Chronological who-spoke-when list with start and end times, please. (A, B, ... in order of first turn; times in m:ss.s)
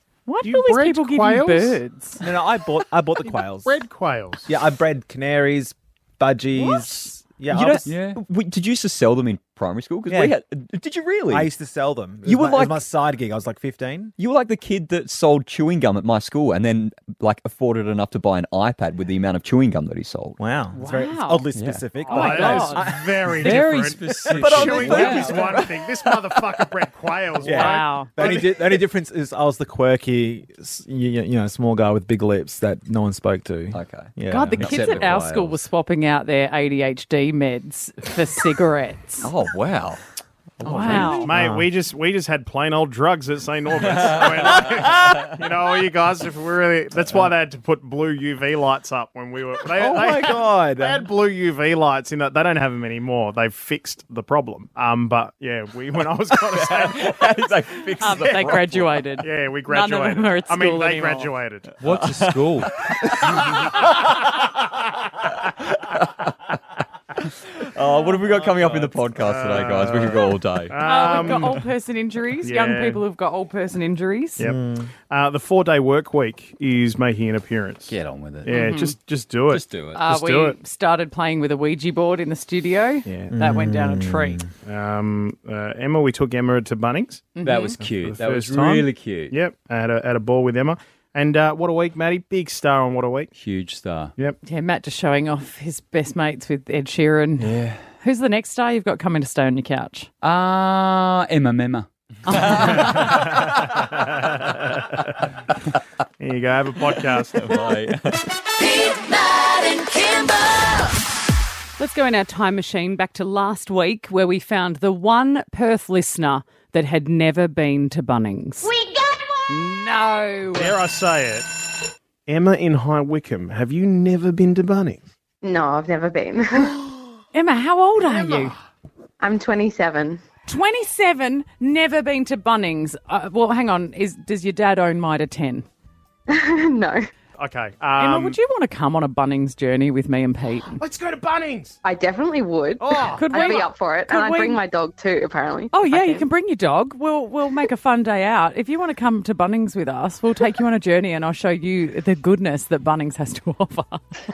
0:00.3-0:02.2 A
0:00.4-0:01.8 B
0:02.2-0:03.8 C
0:03.2-0:04.5 B
0:04.4-0:07.9 C
0:07.5-0:11.5 D
0:07.8-0:08.2 E
0:10.1-0:10.4 C
0:11.3-0:14.1 C
0:12.2-0:12.8 D
0:14.2-0:20.4 D
0:20.4-0:23.6 C
0:20.8-0:21.5 A
0:21.6-0:21.8 D
0:22.0-0:28.8 B
0:22.1-0:22.8 A
0:23.4-0:25.5 E
0:24.3-0:26.8 D
0:24.5-0:25.1 C
0:27.4-0:35.0 C
0:27.5-0:28.1 A
0:33.7-0:35.4 D
0:34.3-0:39.3 A
0:34.6-0:35.6 E
0:39.2-0:40.0 D
0:40.6-0:41.6 C
0:40.6-0:41.3 A
0:40.8-0:41.2 D
0:41.2-0:57.4 B
0:43.8-0:44.7 D
0:49.7-0:51.1 C
0:56.4-0:59.1 D
0:58.0-1:01.3 A
0:58.2-0:58.6 B
0:59.2-1:01.8 B
1:01.8-1:02.7 E
1:01.8-1:03.8 D
1:05.8-1:06.3 D
1:07.6-1:11.6 D
1:08.7-1:11.6 B
1:10.8-1:14.5 A
1:12.4-1:13.0 B
1:14.4-1:20.6 B
1:14.4-1:14.9 C
1:17.9-1:18.5 E
1:18.5-1:19.0 A
1:19.5-1:20.0 E
1:19.9-1:24.4 A
1:23.0-1:23.4 B
1:23.3-1:24.5 C
1:24.6-1:33.3 B
1:27.4-1:27.8 A
1:27.4-1:29.4 E
1:33.4-1:34.1 E
1:34.4-1:40.1 A
1:37.4-1:37.8 E
1:40.2-1:43.1 E
1:42.3-1:43.1 A
1:42.8-1:45.1 B
1:46.2-1:47.7 B
1:47.3-1:48.3 D
1:48.6-1:50.7 F
1:51.8-1:58.7 A
1:59.5-2:00.8 A
2:00.5-2:01.5 B
2:02.3-2:05.0 B
2:05.4-2:06.8 G
2:07.3-2:08.5 A
2:09.2-2:10.2 G
2:10.5-2:15.6 A
2:16.3-2:17.0 G
2:17.4-2:18.4 B
2:18.0-2:20.8 A
2:20.8-2:21.8 B
2:21.8-2:26.2 G
2:22.8-2:23.7 B
2:23.1-2:24.6 A
2:25.7-2:34.1 A